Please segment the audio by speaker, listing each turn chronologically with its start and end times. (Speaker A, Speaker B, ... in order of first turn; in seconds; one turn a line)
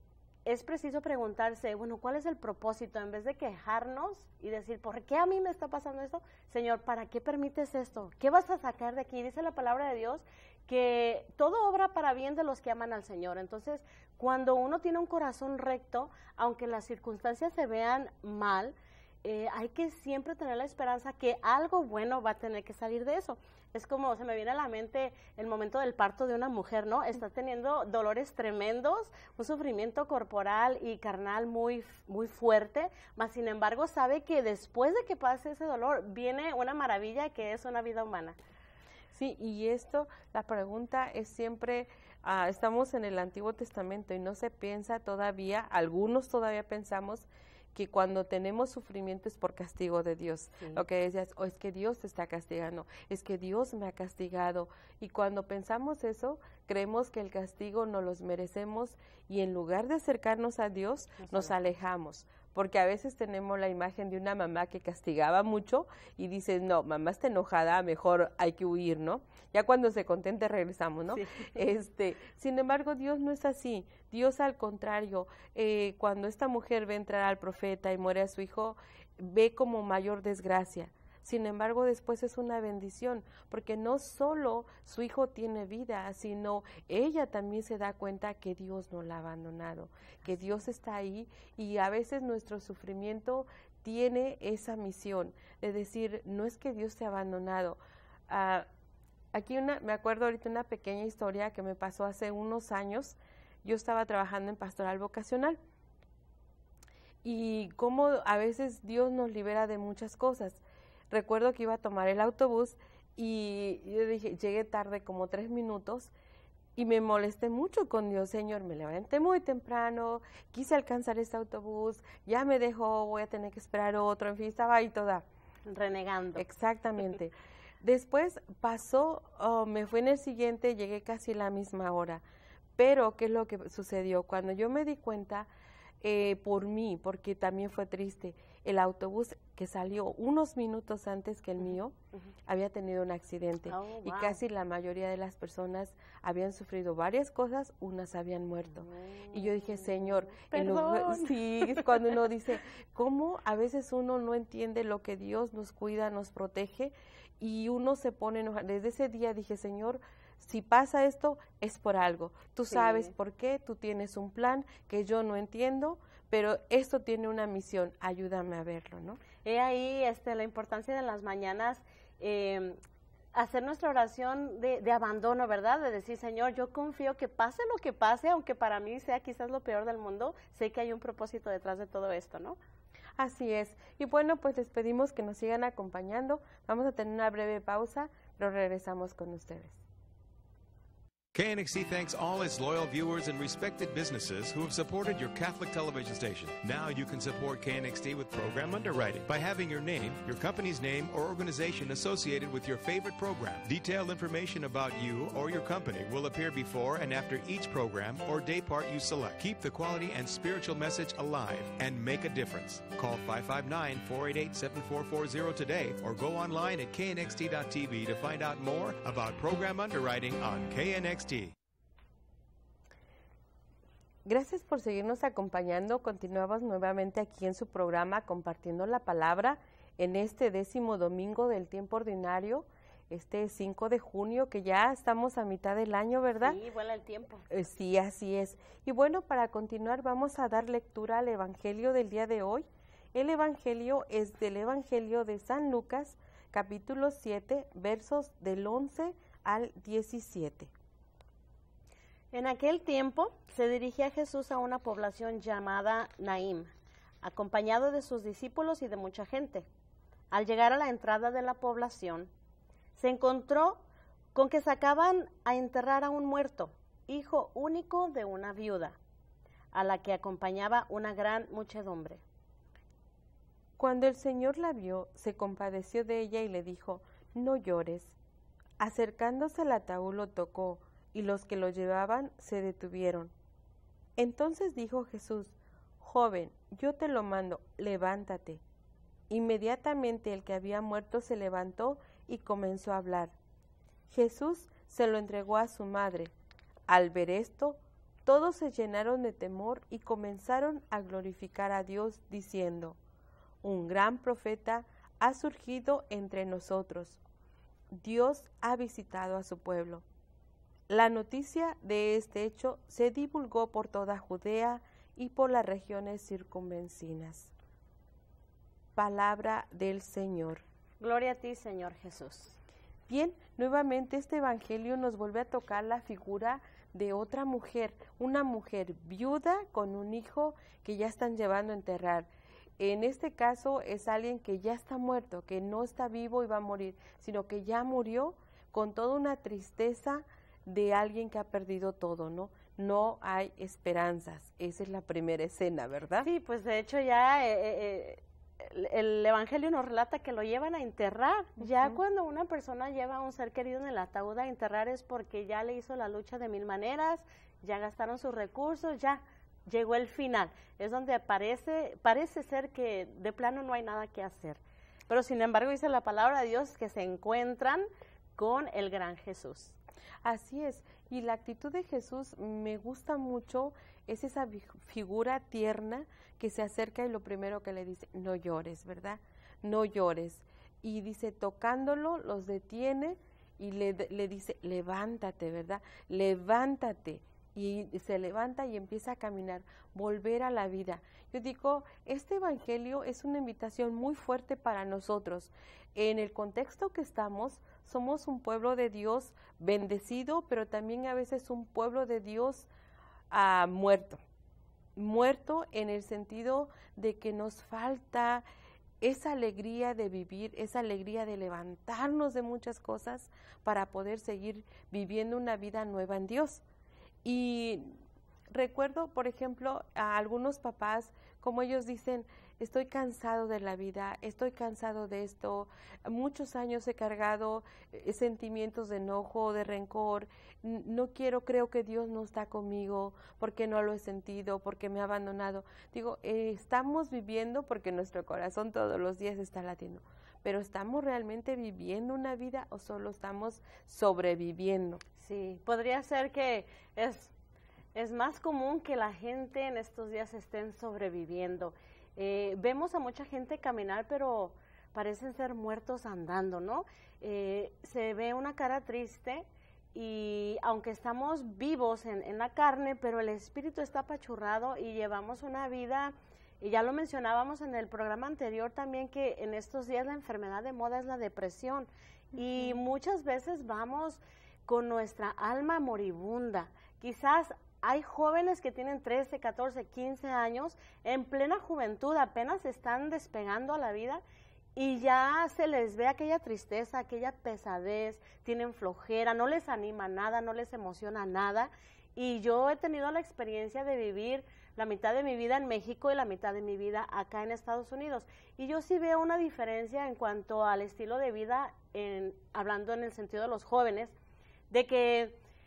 Speaker A: 0.5-38.4
Speaker B: 39.1-98.7
Speaker A: 61.2-61.5
Speaker A: 71.1-71.5
Speaker B: 99.3-105.6
Speaker B: 107.2-116.1
Speaker B: 116.8-125.2
Speaker A: 125.7-126.4
Speaker B: 126.4-132.2
Speaker B: 132.8-135.5
Speaker B: 136.0-169.2
Speaker A: 143.7-144.4
Speaker A: 148.8-151.9
Speaker A: 162.7-163.1
Speaker A: 169.4-172.8
Speaker A: 173.3-182.6
Speaker B: 183.2-189.8
Speaker C: 191.3-221.5
Speaker B: 224.2-236.6
Speaker A: 236.4-237.5
Speaker B: 237.5-250.7
Speaker A: 252.3-256.7
Speaker A: 257.2-259.7
Speaker A: 260.3-262.3
Speaker A: 263.0-263.8
Speaker A: 264.3-269.0
Speaker A: 269.7-272.2
Speaker B: 273.8-278.1
Speaker B: 278.8-283.3
Speaker B: 284.2-288.6
Speaker B: 289.3-293.3
Speaker B: 294.1-296.3
Speaker B: 296.9-303.0
Speaker B: 303.6-307.2
Speaker B: 307.9-310.0
Speaker B: 310.9-317.5
Speaker B: 319.0-320.6
Speaker A: 321.0-322.6
Speaker B: 323.1-346.3
Speaker A: 346.2-367.9
Speaker A: 368.4-369.8
Speaker B: 370.2-402.7
Speaker B: 403.3-404.2
Speaker B: 405.0-408.4
Speaker B: 409.0-416.6
Speaker B: 417.2-417.9
Speaker B: 418.5-445.0
Speaker A: 445.2-447.3
Speaker A: 447.9-484.2
Speaker A: 484.8-504.1
Speaker A: 504.7-505.4